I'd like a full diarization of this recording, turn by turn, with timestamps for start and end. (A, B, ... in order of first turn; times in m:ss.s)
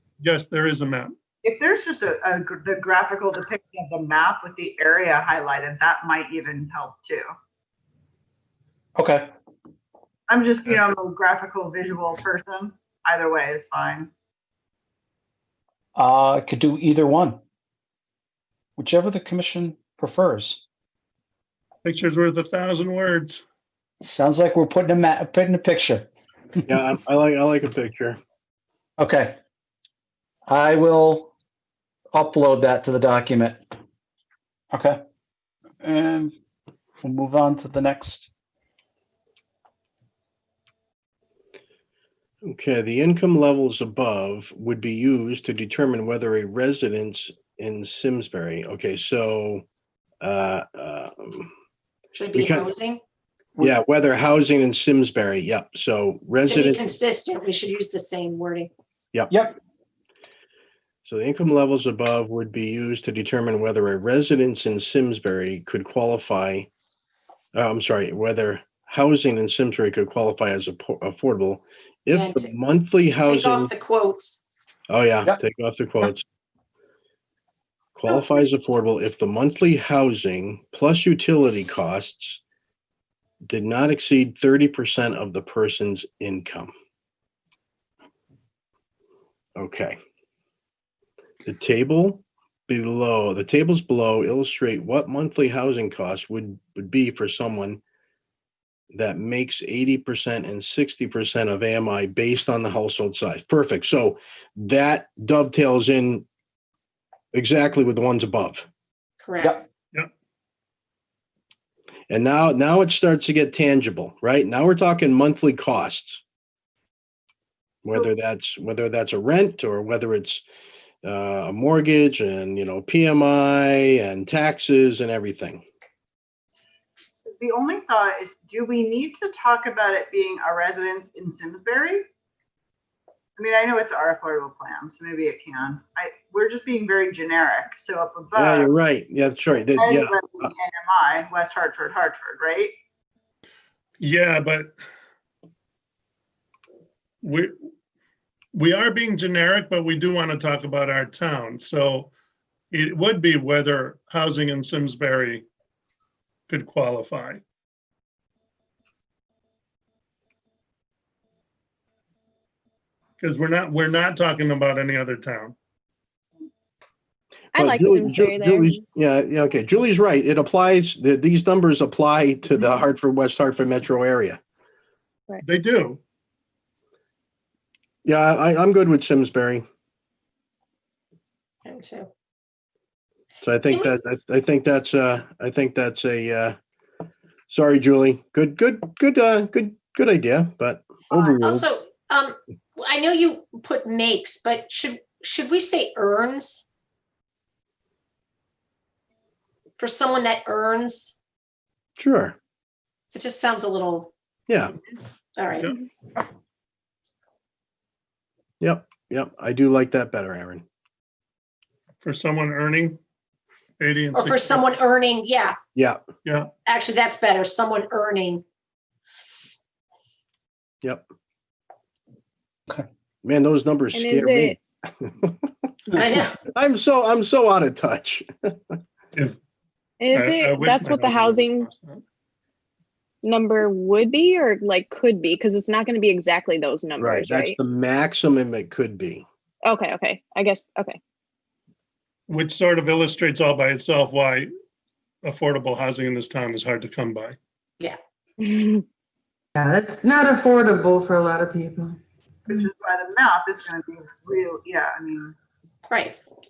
0:00.2-0:01.2 A
0:01.4-0:07.3 B
0:09.0-0:09.3 C
0:10.3-0:14.1 B
0:16.0-0:17.4 C
0:18.8-0:20.6 C
0:21.8-0:23.4 A
0:24.0-0:26.7 C
0:26.7-0:28.2 D
0:29.0-0:29.3 C
0:30.5-0:31.3 C
0:32.1-0:33.6 C
0:34.7-0:35.0 C
0:35.8-0:36.4 C
0:37.0-0:38.3 C
0:42.4-0:49.6 D
0:50.2-0:51.5 D
0:52.2-0:53.0 E
0:52.3-0:52.7 D
0:53.6-0:56.9 D
0:56.4-0:58.7 E
0:59.3-0:59.6 C
1:01.0-1:06.7 D
1:07.5-1:13.7 D
1:12.1-1:12.5 E
1:13.2-1:14.4 E
1:14.9-1:16.2 D
1:18.0-1:22.4 D
1:23.5-1:26.7 D
1:29.6-1:30.0 D
1:31.4-1:37.8 D
1:38.9-1:46.3 D
1:47.3-1:48.6 D
1:49.2-1:49.6 E
1:52.1-1:56.2 D
1:57.8-2:00.4 D
2:01.0-2:05.6 D
2:07.2-2:12.0 B
2:13.4-2:18.7 B
2:18.4-2:20.5 D
2:19.8-2:22.7 B
2:24.0-2:24.7 A
2:27.2-2:27.5 A
2:28.5-2:32.1 A
2:32.7-2:35.4 A
2:36.5-2:37.4 A
2:43.2-2:45.6 A
2:47.5-2:48.8 F
2:47.6-2:54.4 D
2:55.4-2:56.0 A
2:58.0-2:59.6 D
3:01.6-3:02.1 E
3:03.4-3:06.6 D
3:07.5-3:11.7 D
3:11.1-3:16.7 E
3:19.8-3:21.2 E
3:22.0-3:22.4 D
3:23.1-3:24.1 E
3:24.5-3:24.8 D
3:25.4-3:25.7 E
3:28.6-3:30.6 D
3:32.0-3:33.0 A
3:33.8-3:34.7 A
3:34.1-3:35.6 E
3:36.2-3:36.5 A
3:36.7-3:38.4 E
3:43.2-3:45.4 D
3:43.9-3:44.6 F
3:46.0-3:48.8 D
3:46.0-3:46.4 E
3:50.0-3:51.7 F
3:50.1-3:52.0 A
3:53.2-3:57.6 F
3:57.0-3:59.2 D
3:59.6-4:01.0 F
4:02.3-4:04.5 A
4:05.2-4:07.4 A
4:08.4-4:08.8 F
4:09.6-4:12.0 G
4:12.5-4:15.4 B
4:15.9-4:16.2 E